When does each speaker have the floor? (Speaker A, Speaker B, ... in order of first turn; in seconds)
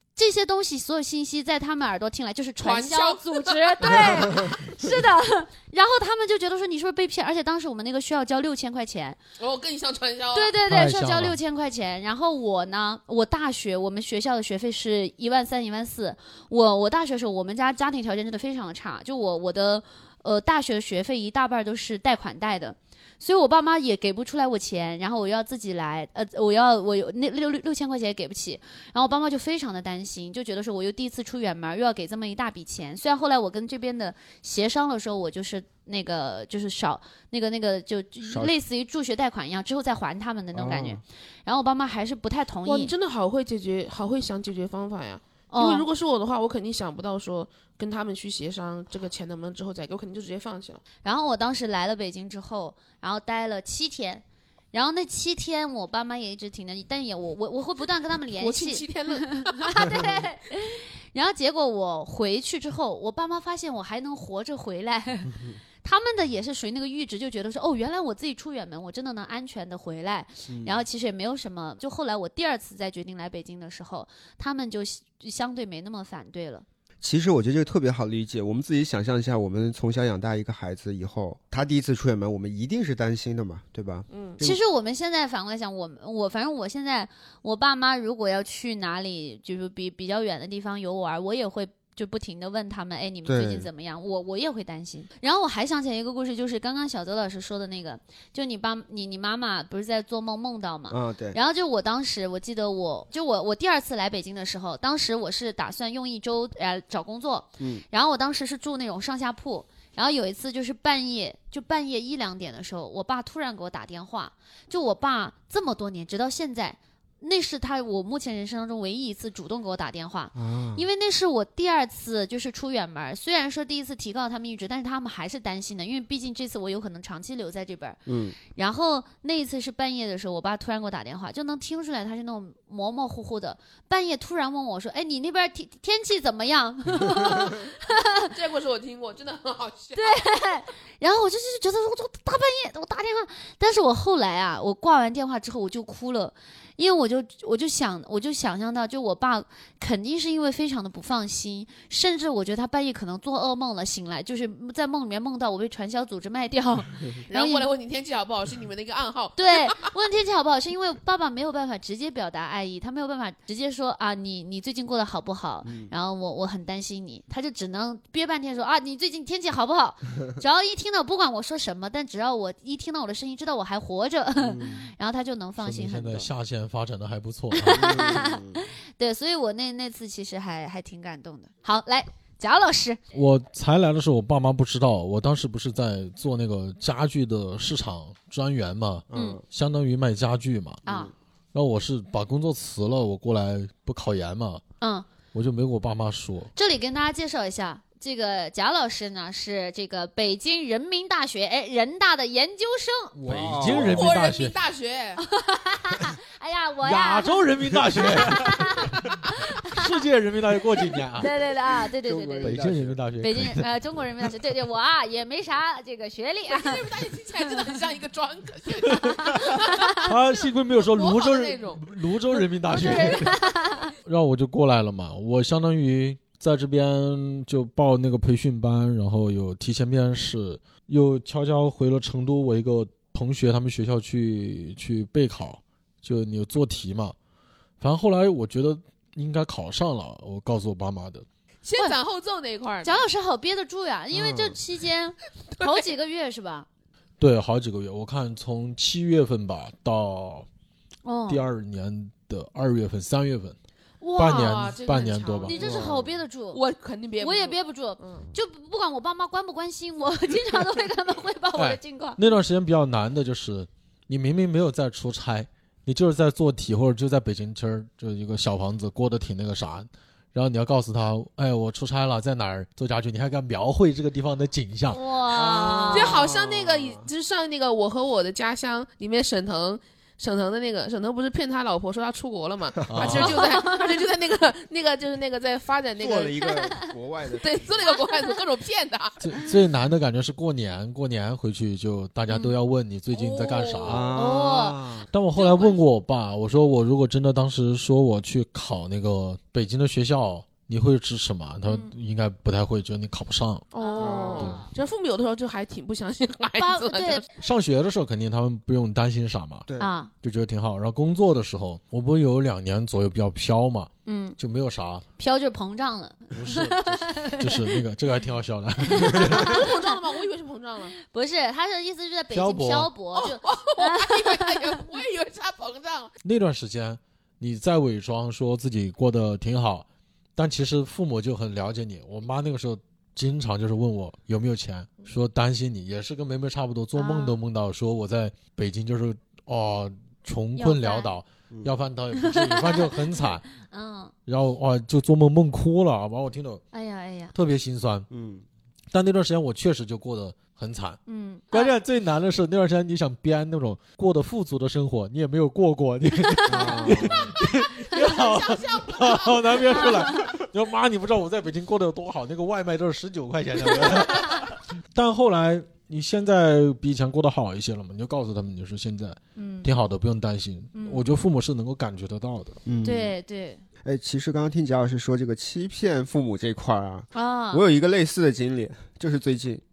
Speaker A: 0.2-9.2, 10.3-42.9, 45.5-45.9, 51.0-76.7, 84.4-128.0, 128.5-138.3, 140.0-157.7, 159.4-176.3, 177.5-183.0, 189.1-189.4, 190.9-191.1, 194.8-195.1, 196.6-203.2, 205.2-209.8, 211.2-212.7, 213.2-216.8, 219.1-220.0, 222.7-223.9, 242.8-246.7, 251.1-251.4, 254.0-254.6, 255.5-256.6, 257.2-262.3, 274.9-276.2, 283.1-283.9, 287.9-288.4, 292.3-292.6, 294.1-294.8, 301.7-301.9, 303.8-304.7, 306.6-307.2, 309.8-310.1, 314.1-314.4, 315.2-317.8, 318.8-319.9, 321.0-324.7, 336.9-337.4, 340.6-341.1, 342.2-344.1, 346.7-347.3, 351.1-351.7, 356.3-356.8, 359.8-360.1, 369.4-369.7, 370.8-371.0, 372.8-373.6, 377.1-377.6
Speaker B: 2.6-4.4, 9.4-10.5, 42.6-50.8, 58.4-60.1, 84.1-84.4, 138.3-140.4, 157.3-159.8, 203.7-205.2, 216.5-220.0, 220.7-223.3, 241.6-243.0, 254.2-255.9, 256.5-258.3, 275.4-286.4, 287.4-289.2, 293.1-294.0, 295.4-295.8, 303.7-307.3, 319.4-320.9, 323.2-326.1, 357.9-360.1
Speaker C: 10.7-11.4, 175.6-178.0, 183.1-190.8, 191.5-194.6, 195.3-196.5, 203.3-204.6, 206.8-208.7, 209.7-211.3, 212.4-213.7, 220.0-223.3, 224.0-237.2, 237.8-241.3, 247.2-250.5, 251.3-253.6, 254.2-255.8, 261.6-275.0, 282.9-283.4, 289.2-294.1, 295.1-303.7, 307.4-309.7, 310.2-315.0, 316.3-319.6, 322.3-322.9, 326.2-343.4, 344.3-346.6, 347.4-348.1, 348.9-351.0, 351.5-372.6
Speaker D: 38.3-38.5, 40.5-41.0, 70.5-70.8, 77.0-84.6, 93.2-93.7, 100.9-101.4, 107.6-107.8, 120.3-120.8, 128.1-128.4, 165.6-165.9, 174.4-174.9, 177.7-178.7, 189.1-189.4, 190.8-191.1, 203.2-204.2, 212.0-213.0, 244.1-244.6, 255.6-256.1, 275.3-277.1, 282.9-283.2, 286.0-287.8, 293.9-295.1, 304.0-304.6, 309.7-309.9, 348.1-348.4, 356.5-357.4, 372.7-373.1, 373.8-379.6